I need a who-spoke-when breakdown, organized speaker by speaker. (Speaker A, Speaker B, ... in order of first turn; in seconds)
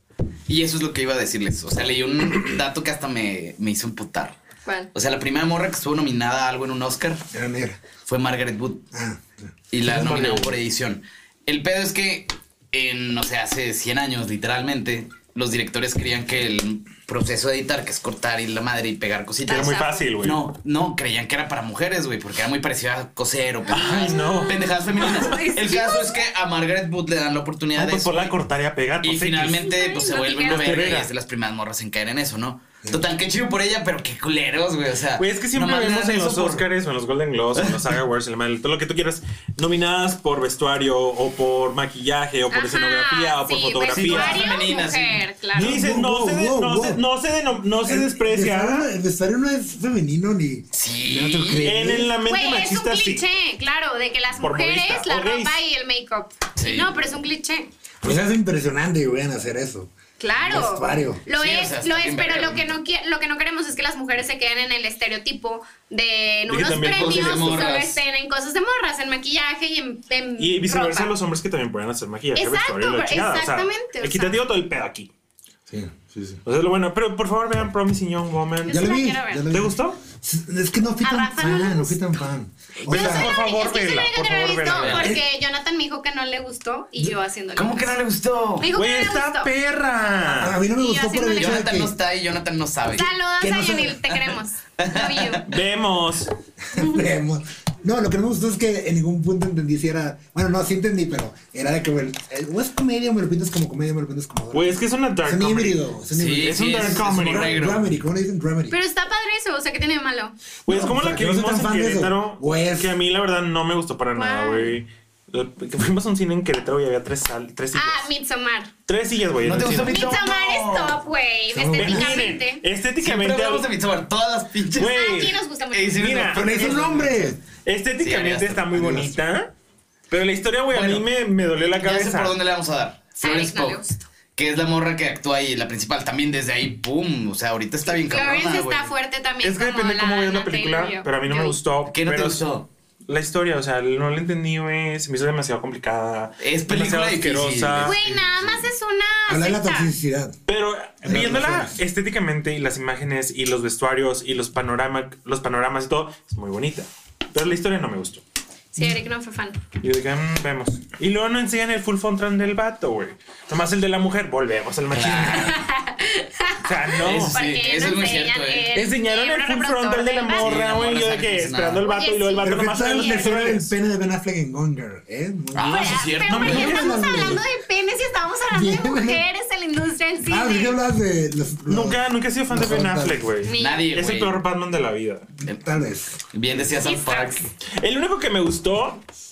Speaker A: 0.5-4.4, 4.9-7.2, 8.0-8.8, 9.7-28.3, 29.0-36.6, 37.5-37.9, 43.9-45.2, 50.7-51.7, 56.6-57.0, 61.3-62.8, 66.7-68.0, 84.7-85.1, 87.5-88.7, 91.4-93.1, 94.8-95.5, 106.1-107.8, 119.4-121.0, 123.0-125.0, 125.7-127.3, 128.0-129.1, 130.7-131.1, 131.7-133.8, 134.3-138.9, 141.8-142.7, 146.4-148.6, 164.9-165.6, 167.0-168.7, 170.3-171.8, 175.5-177.0, 183.6-184.4, 186.3-187.5
Speaker B: 7.3-7.8, 8.9-9.5, 45.5-47.0, 47.8-52.1, 58.0-61.2, 75.7-76.4, 78.7-83.3, 85.0-85.2, 90.3-91.9, 93.4-94.1, 96.7-108.8, 110.7-112.9, 121.5-122.3, 126.3-127.4, 128.7-129.1, 149.3-150.4, 151.0-151.8, 172.4-177.4, 178.5-179.2, 180.2-183.3, 185.4-186.2
Speaker C: 9.8-10.6, 19.5-20.4, 23.7-25.2, 27.8-29.6, 30.5-31.1, 35.2-44.5, 45.5-48.9, 51.6-53.2, 54.4-55.6, 66.5-67.5, 70.4-75.1, 76.4-78.9, 79.5-80.0, 82.8-85.1, 88.7-90.5, 95.5-96.3, 104.5-105.8, 106.4-107.7, 110.7-118.0, 118.9-120.1, 121.8-123.7, 124.8-125.4, 125.9-129.5, 130.1-132.3, 139.4-142.4, 143.1-148.0, 150.5-158.2, 159.8-165.6, 166.6-167.3, 168.7-173.7, 176.3-177.0, 181.7-185.3, 187.8-189.0
Speaker D: 19.4-20.1, 23.7-26.2, 29.6-30.9, 42.5-45.8, 52.2-57.7, 60.2-71.1, 72.3-74.4, 78.6-79.4, 81.0-82.0, 82.9-87.9, 88.6-89.5, 90.7-91.7, 92.9-95.5, 96.7-97.0, 108.7-110.3, 114.1-114.7, 117.7-118.7, 119.8-122.6, 124.8-126.1, 133.2-134.0, 138.1-141.6, 147.8-149.9, 158.7-159.6, 165.4-170.6, 171.8-173.3, 175.6-180.8, 183.4-183.8, 186.8-187.4